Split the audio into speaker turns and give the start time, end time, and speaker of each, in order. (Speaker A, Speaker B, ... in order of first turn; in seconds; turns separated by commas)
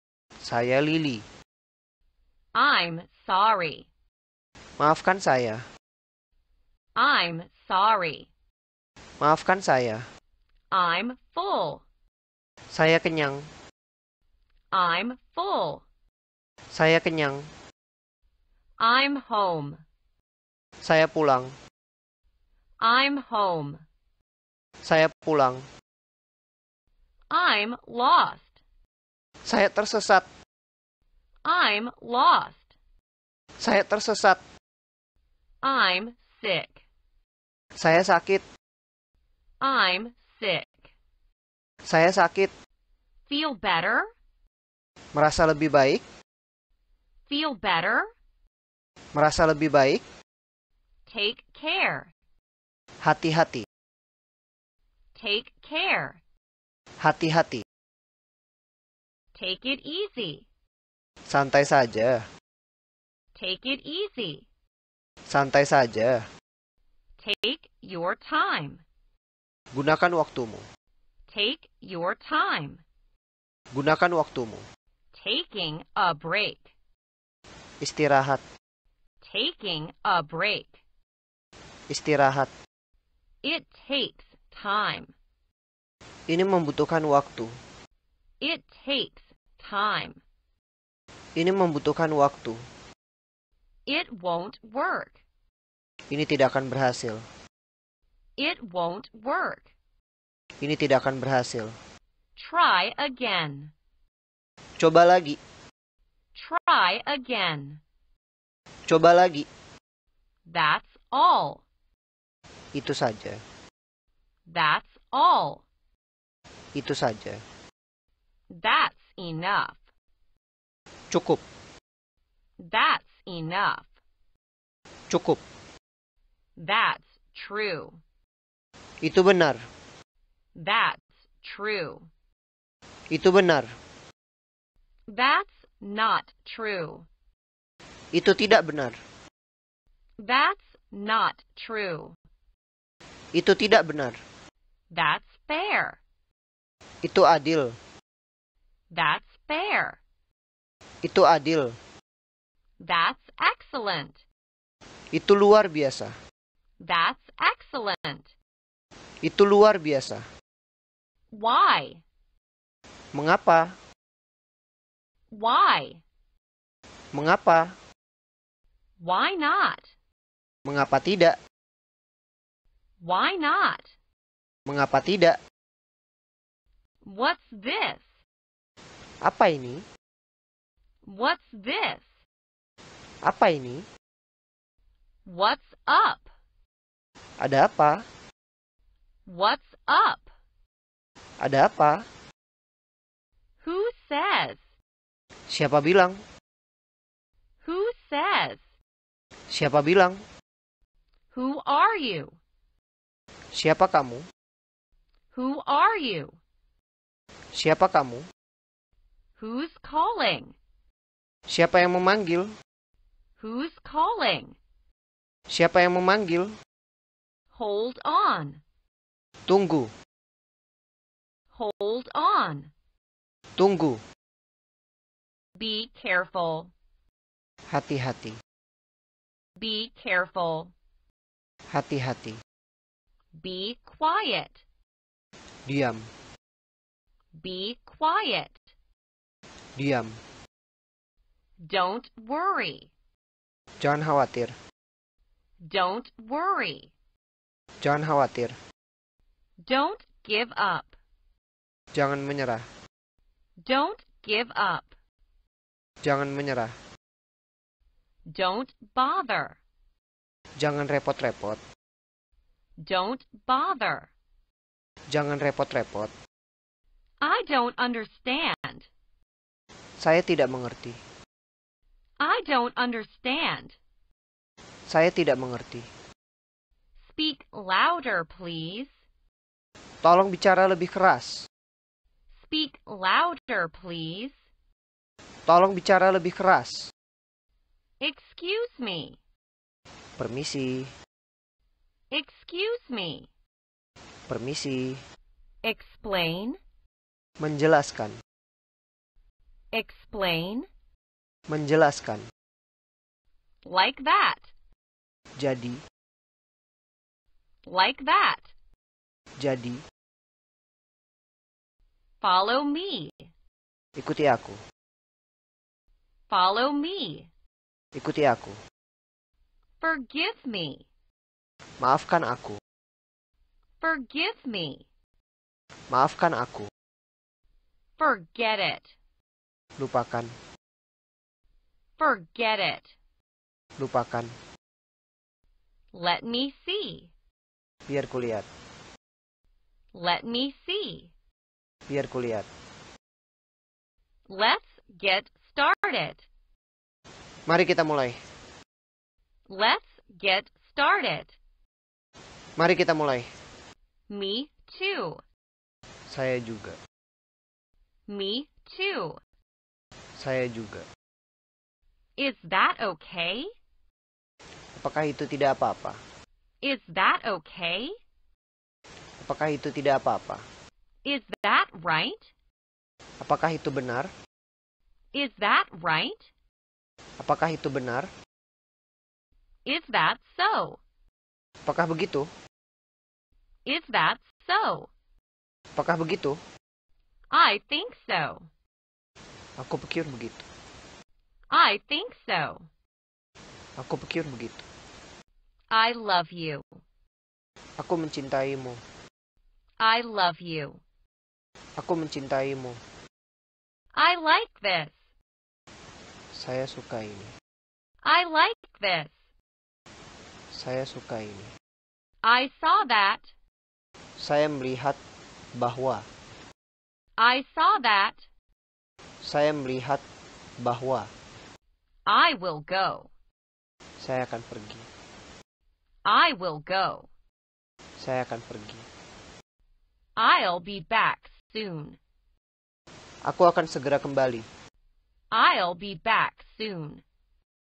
Speaker A: 0.4-1.2, Speaker B: 2.5-3.9, Speaker A: 4.8-5.6, Speaker B: 7.0-8.3, Speaker A: 9.2-10.0, Speaker B: 10.7-11.8, Speaker A: 12.7-13.4, Speaker B: 14.7-15.8, Speaker A: 16.7-17.4, Speaker B: 18.8-19.8, Speaker A: 20.8-21.5, Speaker B: 22.8-23.8, Speaker A: 24.8-25.6, Speaker B: 27.3-28.6, Speaker A: 29.4-30.3, Speaker B: 31.4-32.7, Speaker A: 33.6-34.4, Speaker B: 35.6-36.8, Speaker A: 37.8-38.4, Speaker B: 39.6-40.9, Speaker A: 41.9-42.5, Speaker B: 43.3-44.1, Speaker A: 45.1-46.0, Speaker B: 47.3-48.1, Speaker A: 49.1-50.0, Speaker B: 51.1-52.1, Speaker A: 53.0-53.6, Speaker B: 55.1-56.2, Speaker A: 57.0-57.6, Speaker B: 59.3-60.5, Speaker A: 61.3-62.2, Speaker B: 63.4-64.5, Speaker A: 65.3-66.2, Speaker B: 67.2-68.8, Speaker A: 69.7-70.6, Speaker B: 71.3-72.8, Speaker A: 73.7-74.7, Speaker B: 75.1-76.7, Speaker A: 77.8-78.4, Speaker B: 79.2-80.8, Speaker A: 81.9-82.5, Speaker B: 83.4-85.1, Speaker A: 86.3-87.5, Speaker B: 88.4-90.2, Speaker A: 91.4-92.6, Speaker B: 93.9-95.2, Speaker A: 96.1-97.2, Speaker B: 98.4-99.7, Speaker A: 100.6-101.7, Speaker B: 102.4-103.7, Speaker A: 104.8-105.4, Speaker B: 106.3-107.8, Speaker A: 108.9-109.5, Speaker B: 110.5-111.6, Speaker A: 112.7-113.4, Speaker B: 114.5-115.7, Speaker A: 116.8-117.4, Speaker B: 118.5-119.8, Speaker A: 121.1-121.4, Speaker B: 122.6-123.9, Speaker A: 125.1-125.4, Speaker B: 126.6-128.0, Speaker A: 129.0-129.6, Speaker B: 130.6-132.1, Speaker A: 133.1-133.7, Speaker B: 135.1-137.1, Speaker A: 138.1-138.9, Speaker B: 140.2-142.2, Speaker A: 143.3-144.2, Speaker B: 144.9-146.0, Speaker A: 147.0-147.8, Speaker B: 148.9-150.0, Speaker A: 151.0-151.7, Speaker B: 152.8-154.2, Speaker A: 155.1-156.1, Speaker B: 156.8-158.3, Speaker A: 159.2-160.2, Speaker B: 161.3-162.0, Speaker A: 163.1-163.7, Speaker B: 165.3-166.0, Speaker A: 167.1-167.7, Speaker B: 169.0-169.9, Speaker A: 170.7-171.4, Speaker B: 173.0-173.9, Speaker A: 174.7-175.4, Speaker B: 177.0-178.2, Speaker A: 179.2-179.8, Speaker B: 181.1-182.1, Speaker A: 183.2-183.8, Speaker B: 185.3-186.3, Speaker A: 187.4-188.0, Speaker B: 189.3-190.3, Speaker A: 191.4-192.0, Speaker B: 193.6-194.6, Speaker A: 195.5-196.2, Speaker B: 197.6-198.6, Speaker A: 199.5-200.2, Speaker B: 201.3-202.4, Speaker A: 203.5-204.2, Speaker B: 205.3-206.4, Speaker A: 207.5-208.3, Speaker B: 209.4-210.6, Speaker A: 211.5-212.5, Speaker B: 213.4-214.6, Speaker A: 215.5-216.5, Speaker B: 217.5-218.6, Speaker A: 219.5-219.9, Speaker B: 221.5-222.7, Speaker A: 223.6-224.0, Speaker B: 225.6-226.7, Speaker A: 227.7-228.4, Speaker B: 229.6-230.7, Speaker A: 231.7-232.4, Speaker B: 233.4-234.6, Speaker A: 235.7-236.1, Speaker B: 237.4-238.6, Speaker A: 239.8-240.2, Speaker B: 241.6-242.9, Speaker A: 243.8-244.5, Speaker B: 245.6-246.9, Speaker A: 247.8-248.6, Speaker B: 249.6-251.0, Speaker A: 251.9-252.7, Speaker B: 253.6-254.9, Speaker A: 256.0-256.7, Speaker B: 258.3-259.6, Speaker A: 260.6-261.6, Speaker B: 262.8-264.1, Speaker A: 265.1-266.1, Speaker B: 267.2-268.9, Speaker A: 270.0-271.0, Speaker B: 272.2-273.8, Speaker A: 274.9-275.9, Speaker B: 277.0-279.0, Speaker A: 280.0-281.4, Speaker B: 282.4-284.4, Speaker A: 285.5-286.9, Speaker B: 288.0-289.2, Speaker A: 290.2-290.9, Speaker B: 292.1-293.3, Speaker A: 294.3-295.0, Speaker B: 295.6-296.6, Speaker A: 297.4-298.2, Speaker B: 299.7-300.7, Speaker A: 301.5-302.3, Speaker B: 303.6-304.5, Speaker A: 305.4-305.8, Speaker B: 307.6-308.5, Speaker A: 309.4-309.8, Speaker B: 312.2-313.3, Speaker A: 314.0-314.6, Speaker B: 316.3-317.3, Speaker A: 317.9-318.6, Speaker B: 319.8-320.9, Speaker A: 321.8-322.6, Speaker B: 323.8-324.9, Speaker A: 325.9-326.7, Speaker B: 328.0-328.9, Speaker A: 329.8-330.3, Speaker B: 332.0-332.9, Speaker A: 333.8-334.3, Speaker B: 335.9-337.1, Speaker A: 337.9-338.5, Speaker B: 339.9-341.1, Speaker A: 341.9-342.5, Speaker B: 344.3-346.3, Speaker A: 347.5-348.2, Speaker B: 349.5-351.4, Speaker A: 352.6-353.3, Speaker B: 354.1-355.2, Speaker A: 356.1-356.8, Speaker B: 358.1-359.2, Speaker A: 360.2-360.9, Speaker B: 362.2-363.5, Speaker A: 364.8-366.0, Speaker B: 366.6-367.9, Speaker A: 369.2-370.4, Speaker B: 371.0-372.3, Speaker A: 373.2-374.1, Speaker B: 375.1-376.3, Speaker A: 377.2-378.1, Speaker B: 379.6-380.8, Speaker A: 381.6-382.3, Speaker B: 383.6-384.9, Speaker A: 385.8-386.4, Speaker B: 387.3-388.5, Speaker A: 389.6-390.4, Speaker B: 391.5-392.7, Speaker A: 393.8-394.6, Speaker B: 395.7-396.8, Speaker A: 397.8-398.8, Speaker B: 399.8-400.8, Speaker A: 401.8-402.8, Speaker B: 403.9-405.0, Speaker A: 406.3-407.3, Speaker B: 408.0-409.3, Speaker A: 410.5-411.5, Speaker B: 412.2-413.3, Speaker A: 414.2-415.0, Speaker A: 415.6-416.0, Speaker B: 417.2-418.3, Speaker A: 419.2-420.0, Speaker A: 420.6-421.1, Speaker B: 422.1-423.1, Speaker A: 424.0-424.9, Speaker B: 426.1-427.1, Speaker A: 428.0-428.8, Speaker B: 430.2-432.0, Speaker A: 433.2-434.5, Speaker B: 435.3-437.0